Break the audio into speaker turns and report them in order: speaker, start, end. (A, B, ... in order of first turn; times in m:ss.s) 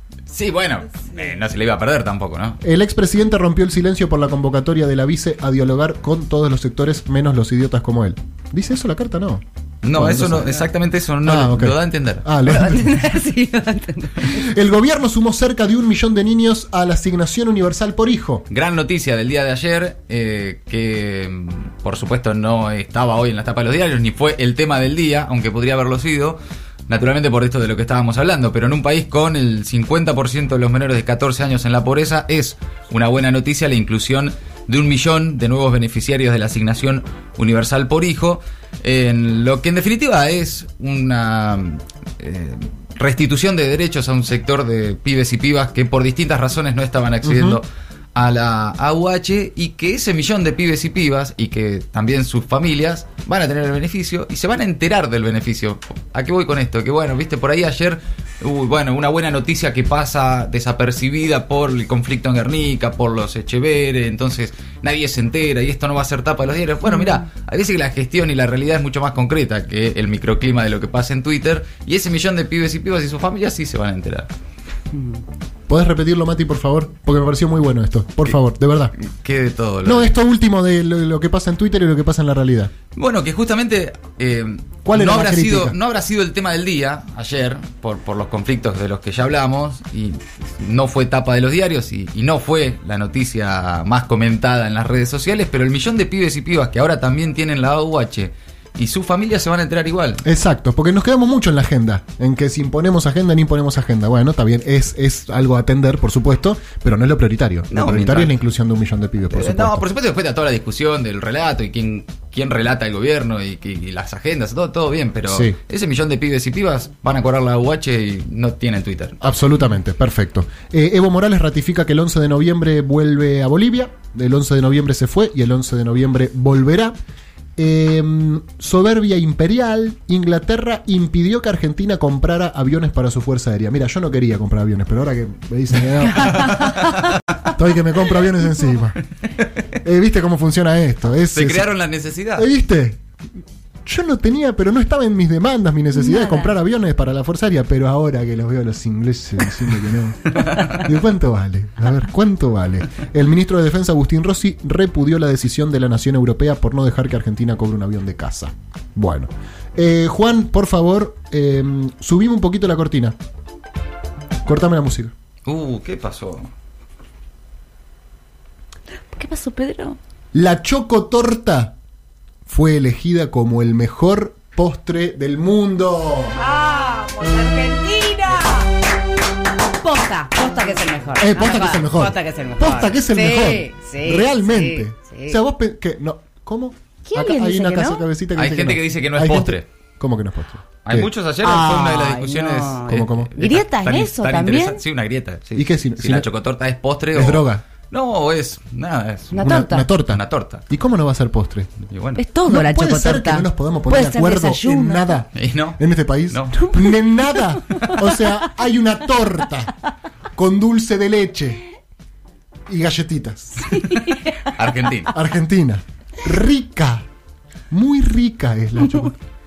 0:00.3-0:02.6 A
0:02.6-0:10.7 B
0:09.8-0:12.3 A
0:11.2-0:13.0 B
0:12.4-0:14.4 C
0:14.2-0:18.4 B
0:18.5-1:14.3 A
0:47.2-0:47.6 B
1:15.7-1:18.9 B
1:19.0-1:20.1 A
1:19.8-1:22.7 B
1:22.9-1:40.2 A
1:24.8-1:25.8 B
1:40.2-1:49.8 B
1:47.7-1:48.4 A
1:49.3-1:59.2 A
1:55.2-1:55.6 B
1:59.2-2:07.0 B
2:07.6-2:16.7 B
2:16.2-2:17.1 A
2:16.2-2:16.9 C
2:17.4-2:19.0 B
2:19.8-2:21.7 B
2:21.3-2:22.5 A
2:22.4-2:23.0 B
2:23.8-2:43.2 B
2:25.9-2:26.5 C
2:30.4-2:30.7 A
2:44.4-2:45.1 B
2:45.4-2:46.5 A
2:49.1-2:50.0 C
2:50.3-2:51.7 B
2:52.4-2:56.3 B
2:56.3-2:58.7 C
2:59.8-3:05.4 C
3:01.2-3:11.1 B
3:07.1-3:08.0 C
3:08.4-3:09.6 A
3:10.8-3:19.5 A
3:11.4-3:14.8 C
3:12.9-3:13.3 B
3:15.6-3:16.3 B
3:17.1-3:17.6 B
3:19.3-3:19.9 C
3:19.4-3:21.7 B
3:20.1-3:20.6 A
3:21.9-3:22.2 A
3:22.2-3:25.1 C
3:22.4-3:29.7 B
3:25.3-3:26.7 A
3:27.7-3:28.2 C
3:30.4-3:31.6 B
3:32.7-3:33.8 B
3:33.7-3:34.5 C
3:33.7-3:35.1 A
3:35.1-3:37.0 B
3:37.7-3:39.2 B